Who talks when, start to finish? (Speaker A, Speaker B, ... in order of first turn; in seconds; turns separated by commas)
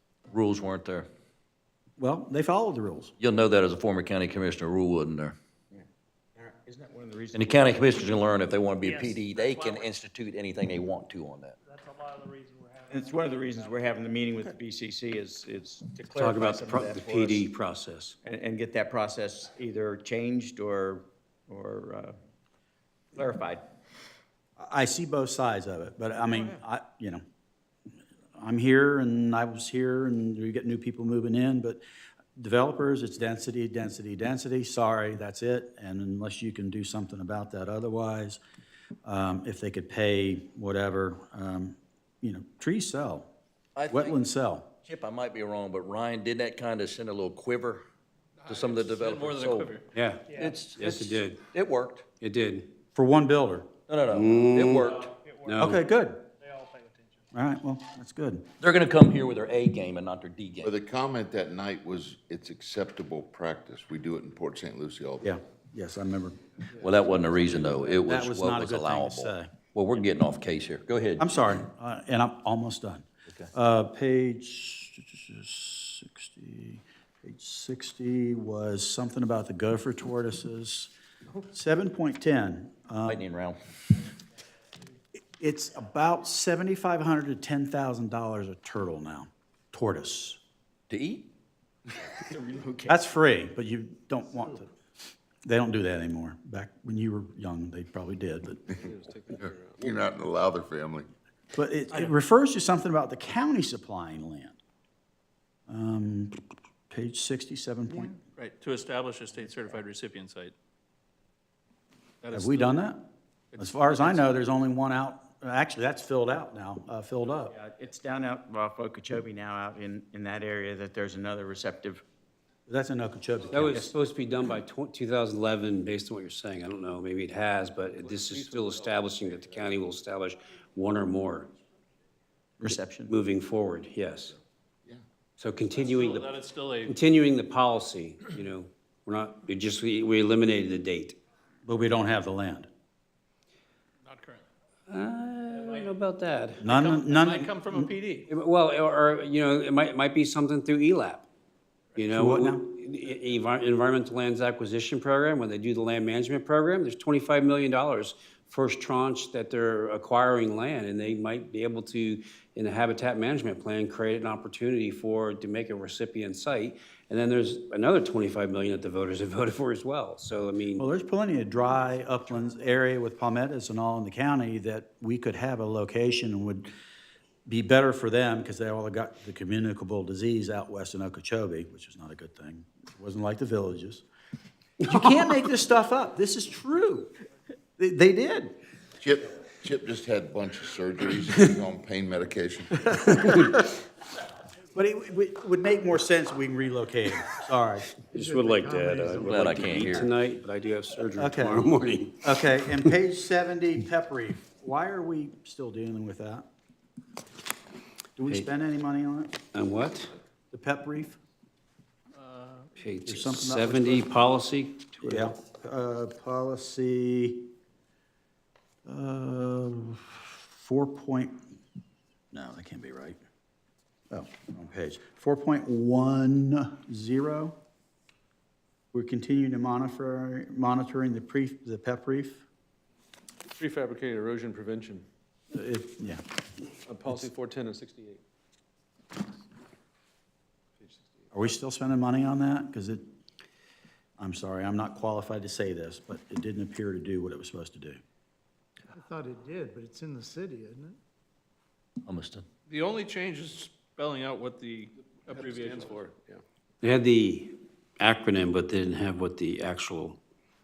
Speaker A: 0.3-1.1, Speaker B: 2.0-3.1, Speaker A: 3.2-5.3, Speaker C: 6.4-8.0, Speaker A: 7.3-11.6, Speaker D: 9.1-9.4, Speaker D: 11.7-13.8, Speaker C: 12.9-17.4, Speaker E: 16.1-18.1, Speaker C: 18.2-22.1, Speaker C: 23.1-23.6, Speaker B: 24.6-27.2, Speaker B: 28.4-31.8, Speaker B: 32.4-38.4, Speaker B: 39.0-43.3, Speaker A: 43.7-44.2, Speaker B: 43.9-44.7, Speaker A: 44.8-47.8, Speaker F: 48.5-49.9, Speaker A: 48.5-49.7, Speaker E: 49.9-51.4, Speaker A: 50.3-52.0, Speaker E: 52.2-52.7, Speaker B: 52.9-53.7, Speaker A: 53.9-55.1, Speaker E: 54.1-54.8, Speaker D: 55.2-55.5, Speaker E: 55.4-55.8, Speaker B: 55.6-56.2, Speaker D: 56.4-57.1, Speaker B: 57.3-58.5, Speaker A: 58.6-60.7, Speaker G: 60.6-65.3, Speaker B: 65.2-69.5, Speaker A: 66.8-71.3, Speaker B: 71.2-80.9, Speaker B: 81.5-83.2, Speaker A: 83.0-83.6, Speaker B: 85.4-90.4, Speaker A: 90.9-91.3, Speaker C: 92.2-93.0, Speaker B: 92.9-94.7, Speaker B: 95.4-98.7, Speaker H: 98.8-99.8, Speaker G: 99.3-101.1, Speaker B: 101.5-104.6, Speaker B: 105.7-108.2, Speaker F: 108.3-110.5, Speaker F: 112.2-112.8, Speaker B: 112.3-113.0, Speaker F: 113.5-114.2, Speaker B: 113.6-117.5, Speaker C: 117.5-122.0, Speaker B: 122.7-123.9, Speaker E: 123.5-131.5, Speaker H: 128.4-129.6, Speaker B: 132.6-133.1, Speaker E: 133.1-134.3, Speaker E: 135.4-136.3, Speaker F: 135.8-137.0, Speaker E: 136.9-141.2, Speaker B: 141.6-142.7, Speaker F: 144.0-144.4, Speaker E: 144.9-146.7, Speaker B: 146.6-147.9, Speaker F: 146.7-148.3, Speaker E: 148.3-151.2, Speaker E: 152.0-170.8, Speaker B: 152.1-152.6, Speaker B: 170.8-176.7, Speaker B: 177.4-184.0, Speaker B: 184.8-187.1, Speaker B: 187.8-188.6, Speaker G: 189.0-193.3, Speaker B: 193.2-193.6, Speaker B: 194.7-197.9, Speaker I: 198.1-200.0, Speaker E: 198.1-202.9, Speaker A: 199.2-200.1, Speaker B: 201.2-201.7, Speaker B: 202.2-206.5, Speaker B: 208.2-209.4, Speaker E: 209.5-210.1, Speaker B: 210.5-211.2, Speaker F: 212.2-212.7, Speaker E: 212.8-215.3, Speaker B: 213.1-214.1, Speaker B: 215.0-217.5, Speaker B: 218.8-221.4, Speaker B: 222.3-223.2, Speaker B: 224.1-227.6, Speaker B: 228.9-232.4, Speaker H: 233.6-235.0, Speaker B: 235.5-236.2, Speaker H: 236.9-238.2, Speaker B: 241.3-243.0, Speaker B: 244.2-248.0, Speaker I: 248.9-251.0, Speaker A: 252.0-252.4, Speaker F: 252.7-256.1, Speaker E: 256.8-260.2